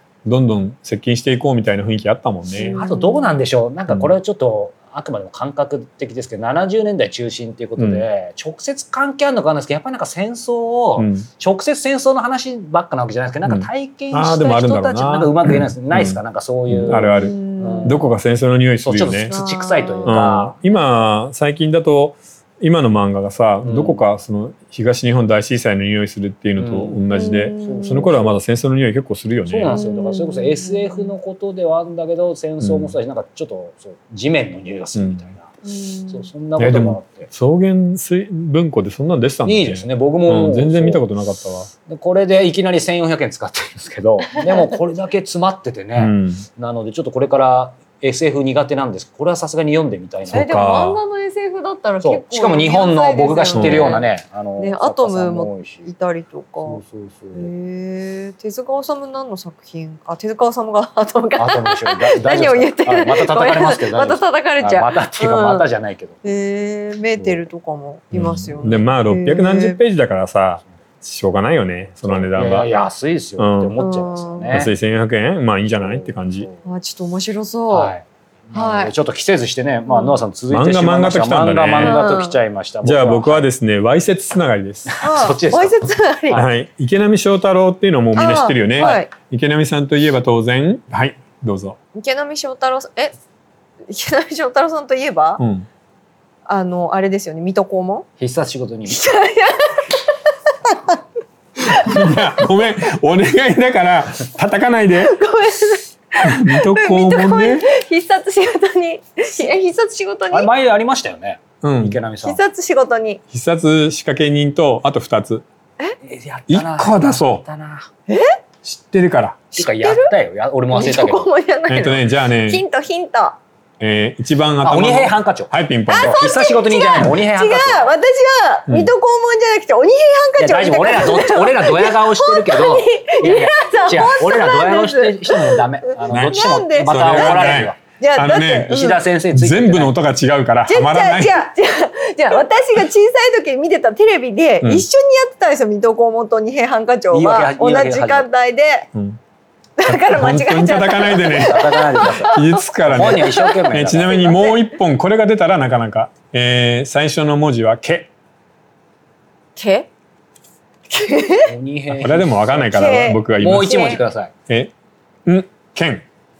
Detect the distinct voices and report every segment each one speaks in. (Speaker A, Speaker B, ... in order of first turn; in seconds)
Speaker A: 0.2-2.8, 7.8-8.0, 11.0-11.3, 13.4-16.2, 16.7-19.4, 20.0-29.8, 32.6-33.0, 34.9-35.2, 36.6-41.7, 46.0-46.4, 50.3-51.0, 53.5-53.9, 68.1-72.7, 73.4-73.7, 74.5-76.5, 80.5-82.0, 82.8-84.9, 86.3-91.8, 95.4-95.7, 101.8-105.2, 106.2-107.7, 111.6-112.0, 113.3-115.4, 116.5-117.4, 118.6-119.4, 121.7-122.6, 123.8-126.1, 136.1-138.7, 139.3-141.4, 149.9-158.1, 161.9-163.9, 164.5-164.7, 165.2-166.0
Speaker B: 2.5-3.4, 17.0-18.0, 19.3-20.2, 27.1-28.1, 29.7-31.1, 35.6-36.3, 50.3-56.8, 57.3-65.7, 66.2-69.8, 73.8-74.6, 76.6-77.9, 78.5-78.9, 79.9-80.2, 81.8-82.4, 85.0-86.4, 88.1-89.1, 91.9-93.1, 93.9-95.4, 96.5-98.1, 98.9-100.0, 100.6-101.0, 101.7-102.1, 105.0-110.5, 112.2-113.2, 118.1-118.4, 119.5-120.1, 120.7-123.4, 125.9-139.0, 140.7-148.9, 149.8-153.6, 154.1-154.6, 159.6-159.9, 160.9-161.5, 162.7-164.0
Speaker C: 2.5-18.1, 18.8-20.6, 23.6-24.0, 26.6-28.4, 29.5-35.5, 36.1-37.3, 39.4-41.0, 41.9-50.5, 52.0-55.9, 56.6-57.5, 61.4-66.2, 67.2-67.4, 68.1-68.5, 72.0-74.7, 75.7-76.7, 77.7-83.5, 84.9-86.5, 88.7-89.0, 98.2-99.0, 110.3-112.4, 116.0-117.9, 119.6-121.3, 124.6-127.9, 130.4-137.8, 138.7-139.9, 147.1-148.3, 151.3-154.3, 161.4-164.3